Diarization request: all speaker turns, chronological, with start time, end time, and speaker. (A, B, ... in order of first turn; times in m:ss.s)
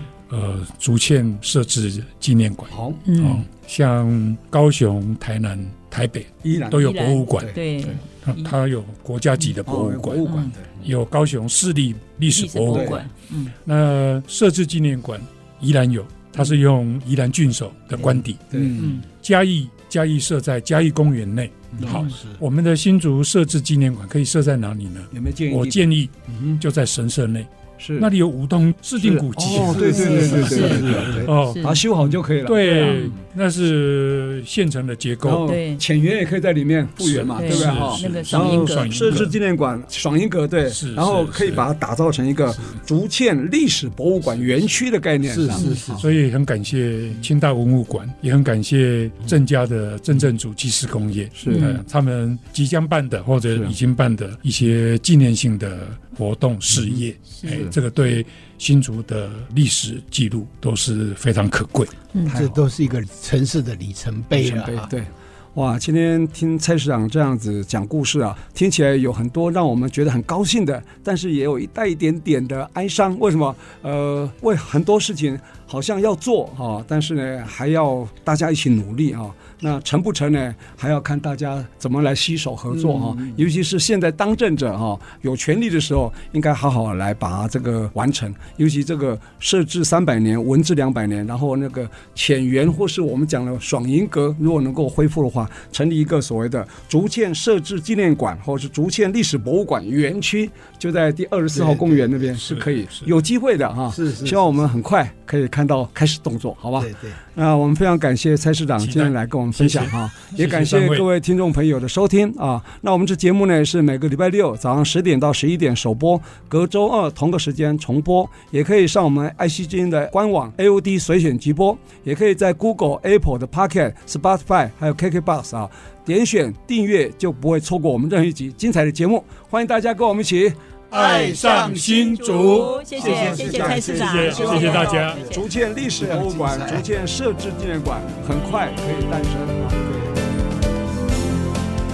0:00.3-0:13.0 A
0:02.7-0:03.0 B
0:03.0-0:03.4 C
0:06.4-0:06.8 B
0:06.7-0:08.5 C
0:07.3-0:08.0 B
0:09.6-0:10.8 B
0:10.2-0:10.5 C
0:12.3-0:13.5 C
0:12.7-0:13.0 B
0:13.6-0:18.5 A
0:18.5-0:18.8 B
0:18.5-0:19.0 D
0:18.8-0:19.0 C
0:19.0-0:31.8 A
0:21.8-0:22.0 B
0:22.0-0:22.4 D
0:25.1-0:26.6 B
0:27.8-0:28.1 B
0:29.0-0:33.2 B
0:29.4-0:31.3 D
0:29.8-0:31.8 C
0:32.4-0:35.5 A
0:32.6-0:33.1 C
0:35.2-0:46.0 B
0:35.4-0:35.8 C
0:37.0-0:39.4 A
0:37.4-0:39.2 C
0:40.7-0:41.6 A
0:45.2-0:46.1 D
0:45.5-0:45.8 C
0:46.0-1:01.9 A
0:51.4-0:51.7 B
0:51.5-0:51.8 C
0:56.8-0:57.7 B
1:02.2-1:02.6 B
1:02.3-1:04.9 D
1:04.3-2:10.6 B
1:22.9-1:23.2 D
1:41.5-1:42.3 D
1:42.4-1:43.1 A
1:43.9-1:44.6 D
1:46.8-1:47.2 D
1:48.8-1:51.1 A
2:10.9-2:16.9 D
2:10.9-2:15.2 A
2:11.0-2:15.5 C
2:13.0-2:19.8 B
2:19.8-2:20.2 D